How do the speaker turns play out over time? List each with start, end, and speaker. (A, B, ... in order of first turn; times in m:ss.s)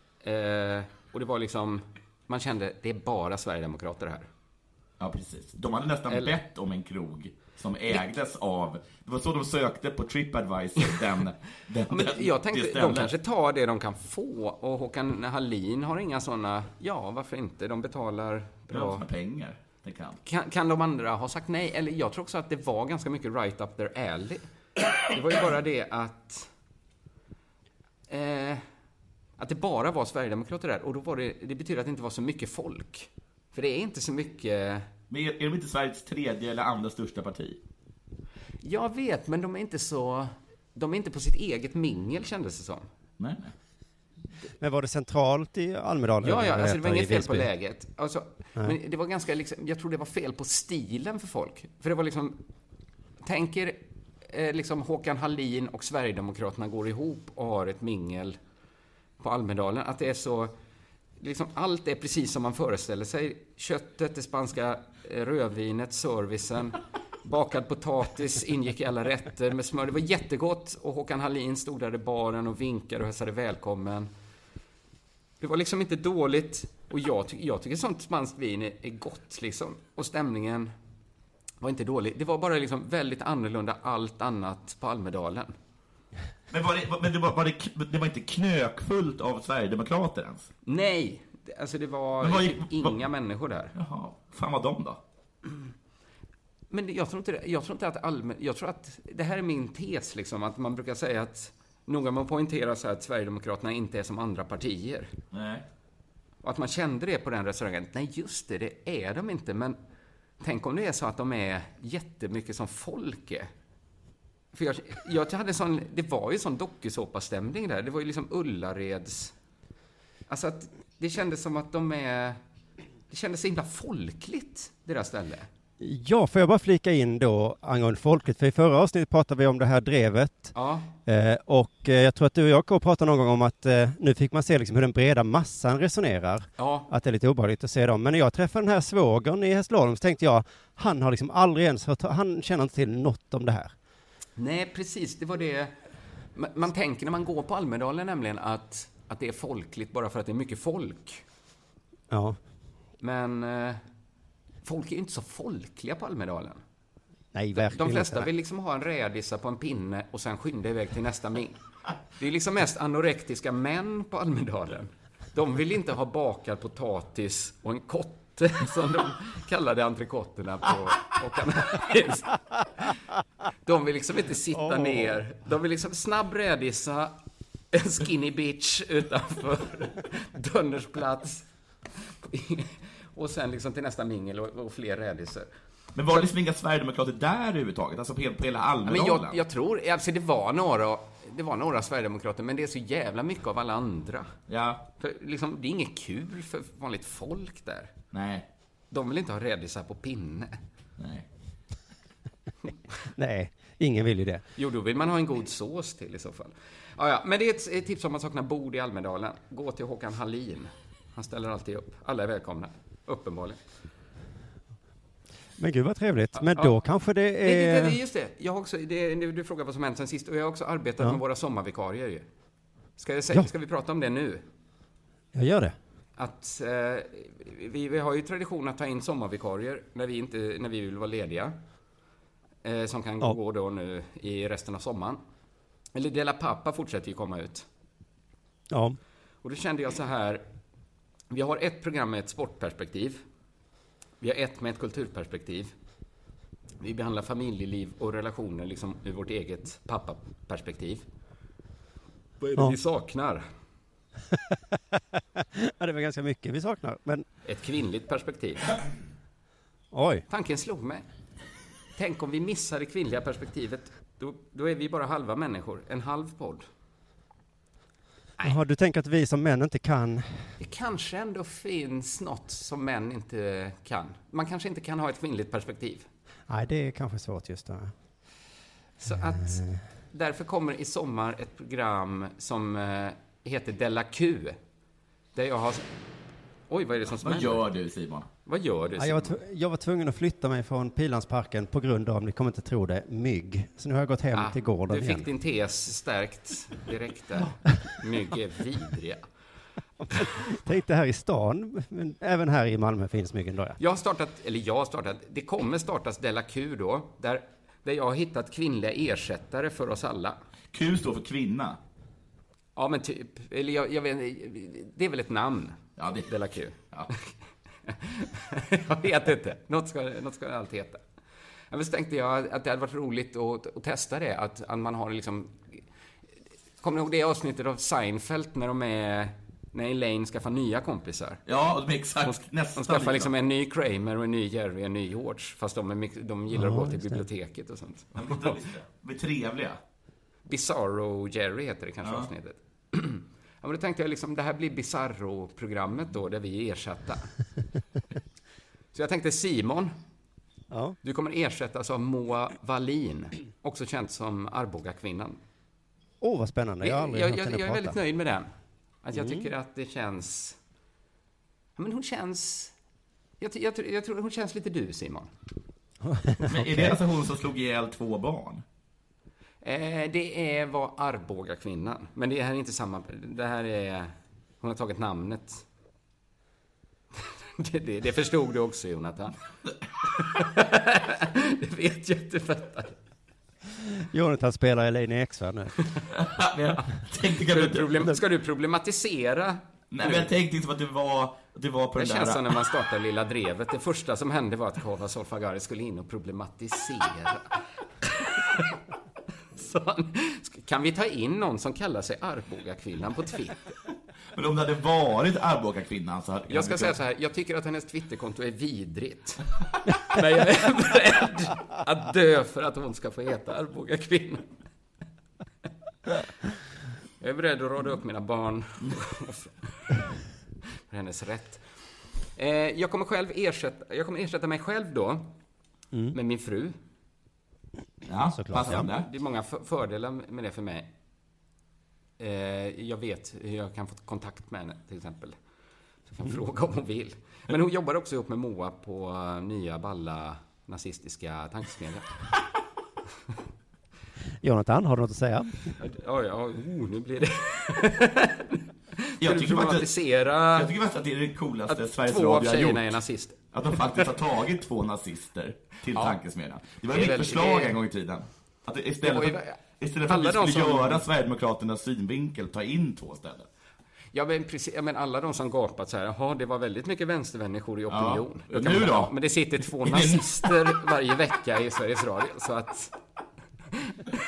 0:00.2-0:04.3 A
0:05.0-0:13.1 B
0:06.1-0:06.4 A
0:11.9-0:19.0 A
0:18.7-0:20.2 B
0:20.2-0:24.4 A
0:25.0-0:26.5 A
0:28.1-0:28.7 A
0:29.4-0:34.9 A
0:35.1-0:37.6 B
0:38.6-0:42.9 A
0:43.2-0:43.5 B
0:44.6-0:47.5 C
0:46.2-0:52.4 A
0:53.2-0:58.4 A
0:59.2-1:00.6 A
1:01.2-1:14.1 A
1:15.4-1:20.7 A
1:21.6-1:25.5 A
1:26.5-1:30.5 B
1:30.7-1:33.7 A
1:32.2-1:33.0 B
1:33.7-1:35.0 B
1:36.7-1:45.1 A
1:45.3-1:45.6 B
1:46.4-1:49.8 A
1:50.4-1:53.5 A
1:54.5-1:59.3 A
2:00.3-2:02.4 A
2:03.1-2:05.5 A
2:05.8-2:10.5 C
2:10.5-2:10.9 A
2:11.1-2:23.7 C
2:16.6-2:16.9 A
2:24.4-2:25.7 A
2:26.3-2:31.2 A
2:32.1-2:32.4 C
2:33.0-2:33.8 A
2:34.6-2:36.6 A
2:37.3-2:38.3 C
2:37.5-2:41.6 A
2:42.2-2:52.9 A
2:53.6-2:57.2 A
2:54.5-2:55.2 C
2:57.7-3:01.5 A
3:02.0-3:05.5 A
3:06.0-3:09.4 B
3:08.9-3:14.4 A
3:14.5-3:14.8 B
3:15.0-3:17.9 A
3:18.1-3:18.4 B
3:18.9-3:20.6 A
3:21.0-3:21.2 B
3:23.2-3:24.4 C
3:24.6-3:33.6 A
3:35.6-3:38.0 C
3:36.4-3:36.8 A
3:37.4-3:42.3 A
3:43.0-3:44.4 A
3:45.3-3:45.8 C
3:46.2-3:51.6 A
3:52.6-3:55.2 A
3:56.0-3:57.7 A
3:58.7-3:59.0 C
3:59.4-4:00.4 A
4:01.3-4:03.2 A
4:04.2-4:05.7 A
4:06.8-4:11.0 A
4:12.4-4:13.4 A
4:14.3-4:17.3 C
4:17.4-4:18.8 A
4:19.9-4:20.3 C
4:20.3-4:21.0 A
4:22.0-4:26.7 A
4:28.4-4:30.5 C
4:30.6-4:36.1 A
4:36.5-4:37.9 C
4:39.0-4:44.6 A
4:39.1-4:39.8 C
4:45.4-4:45.9 A
4:46.7-4:47.7 A
4:47.2-4:48.3 B
4:48.4-4:49.4 A
4:49.0-4:55.3 C
4:54.3-4:59.3 A
5:00.0-5:03.8 C
5:03.8-5:10.4 A
5:10.7-5:11.8 B
5:12.8-5:17.3 A
5:16.0-5:16.3 B
5:17.8-5:21.0 A
5:21.7-5:25.8 A
5:26.8-5:31.4 A
5:31.5-5:33.3 B
5:32.2-5:38.4 A
5:36.5-5:37.2 C
5:38.2-5:39.8 B
5:40.5-5:47.3 A
5:42.0-5:42.3 B
5:48.9-5:50.0 A
5:50.7-5:51.0 C
5:51.0-5:55.4 A
5:56.2-5:58.0 C
5:56.8-5:58.5 A
5:59.0-6:00.6 A
5:59.1-5:59.5 C
6:01.8-6:02.7 A
6:03.4-6:05.3 A
6:06.0-6:07.0 C
6:06.4-6:08.6 B
6:09.6-6:15.6 A
6:17.2-6:19.3 A
6:20.1-6:23.0 A
6:23.8-6:25.7 C
6:26.1-6:28.0 B
6:27.4-6:30.3 A
6:29.9-6:32.6 B
6:32.0-6:38.8 A
6:39.6-6:43.7 A
6:44.4-6:47.0 B
6:46.5-6:49.4 A
6:50.1-6:54.5 A
6:57.2-7:00.0 A
7:00.9-7:01.8 A
7:02.4-7:05.3 A
7:06.1-7:06.8 A
7:08.1-7:09.1 B
7:08.4-7:08.9 C
7:08.6-7:10.9 A
7:12.2-7:15.4 A
7:16.1-7:22.1 A
7:24.4-7:25.7 C
7:25.8-7:30.7 A
7:29.2-7:29.9 B
7:30.6-7:33.0 B
7:31.7-7:34.0 A
7:33.5-7:43.5 B
7:36.9-7:37.8 A
7:39.0-7:41.1 A
7:44.1-7:53.0 A
7:47.9-7:49.1 B
7:49.8-7:50.7 B